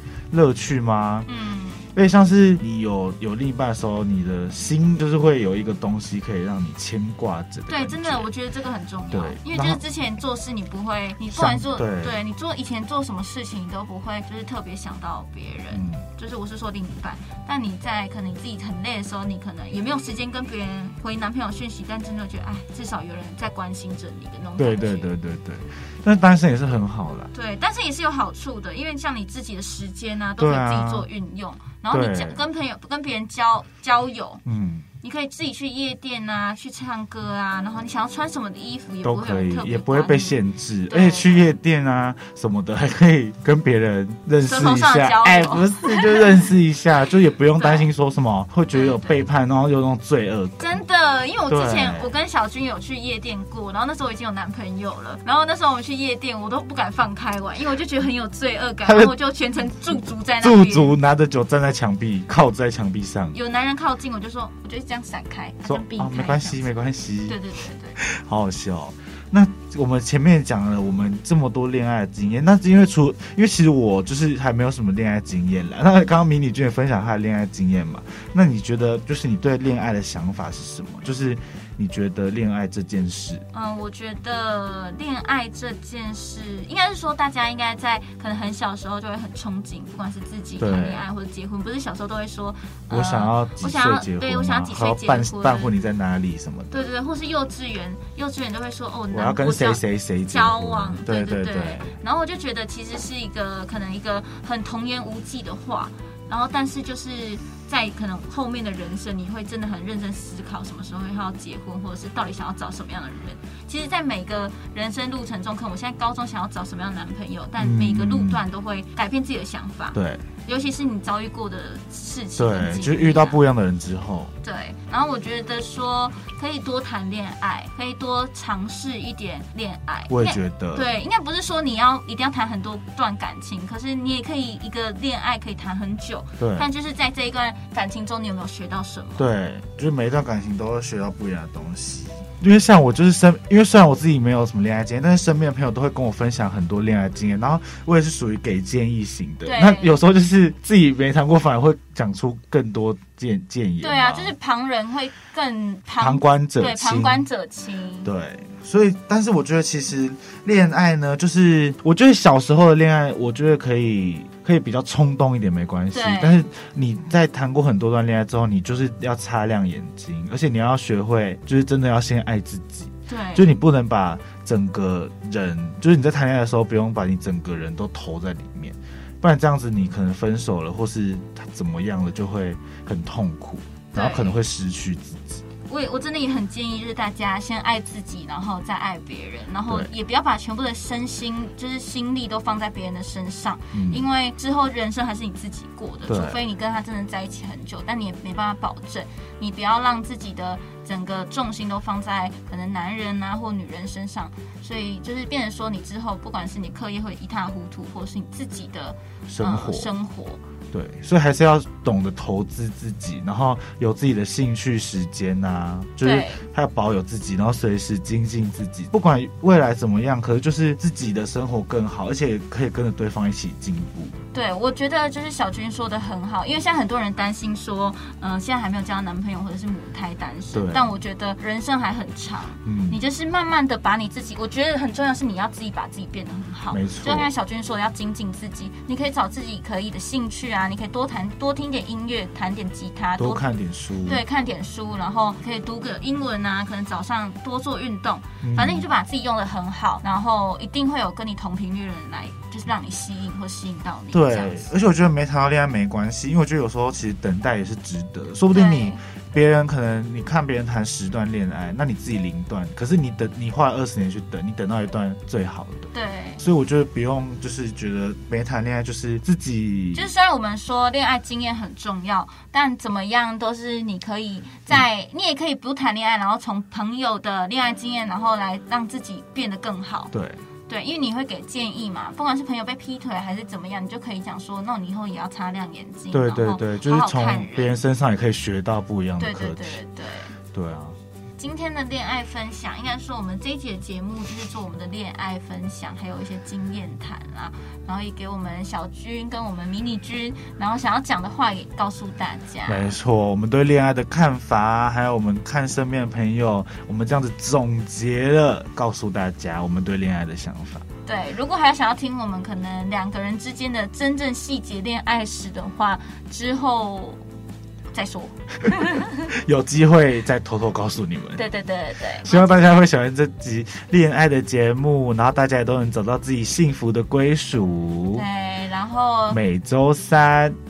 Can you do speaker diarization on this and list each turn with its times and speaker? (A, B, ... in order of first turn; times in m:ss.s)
0:00.3-0:01.3 A
0:01.3-0:01.9 B
0:01.9-0:08.3 A
0:07.7-0:25.1 B
0:09.1-0:09.8 A
0:11.4-0:12.2 A
0:15.7-0:16.0 A
0:24.6-0:27.3 A
0:27.3-0:34.4 B
0:30.4-0:31.1 A
0:31.9-0:32.4 A
0:34.4-0:34.9 A
0:35.0-0:41.6 B
0:39.0-0:50.8 A
0:44.4-0:46.5 B
0:47.6-0:47.9 B
0:48.7-0:49.2 B
0:50.6-1:01.0 B
0:51.5-0:52.1 A
0:58.8-0:59.1 A
1:00.4-1:03.4 A
1:03.3-1:06.7 B
1:05.6-1:07.4 A
1:07.3-1:08.0 B
1:08.0-1:23.4 A
1:23.5-1:35.7 B
1:30.6-1:31.1 A
1:32.9-1:36.8 A
1:36.7-2:03.4 B
1:39.1-1:42.0 A
1:57.6-1:58.4 A
1:59.9-2:00.2 A
2:02.4-2:04.3 A
2:04.4-2:19.3 B
2:10.1-2:10.9 A
2:16.4-2:16.7 A
2:19.2-2:34.3 A
2:29.4-2:30.0 B
2:33.8-2:38.1 B
2:36.0-2:37.3 A
2:38.0-3:05.4 A
2:45.9-2:46.4 B
2:53.1-2:53.5 B
3:03.9-3:04.4 B
3:05.7-3:30.4 B
3:13.7-3:14.1 A
3:16.1-3:16.4 A
3:29.3-3:29.9 A
3:30.7-3:44.2 A
3:36.0-3:36.4 B
3:44.3-4:14.7 B
3:50.5-3:51.0 A
3:52.7-3:53.0 A
3:56.7-3:57.3 A
4:03.2-4:04.2 A
4:08.4-4:08.9 A
4:14.1-4:25.9 A
4:18.5-4:19.0 B
4:25.9-4:26.4 B
4:26.4-4:30.1 A
4:29.9-4:40.1 B
4:40.1-4:40.4 A
4:40.7-4:47.8 B
4:46.1-4:49.8 A
4:49.2-4:50.4 B
4:50.5-4:51.0 A
4:51.4-5:03.0 B
5:02.7-5:10.8 A
5:11.1-5:17.2 B
5:17.9-5:19.3 B
5:19.3-5:21.5 A
5:21.4-5:22.7 B
5:22.2-5:28.3 A
5:28.1-5:29.4 B
5:29.3-5:30.6 A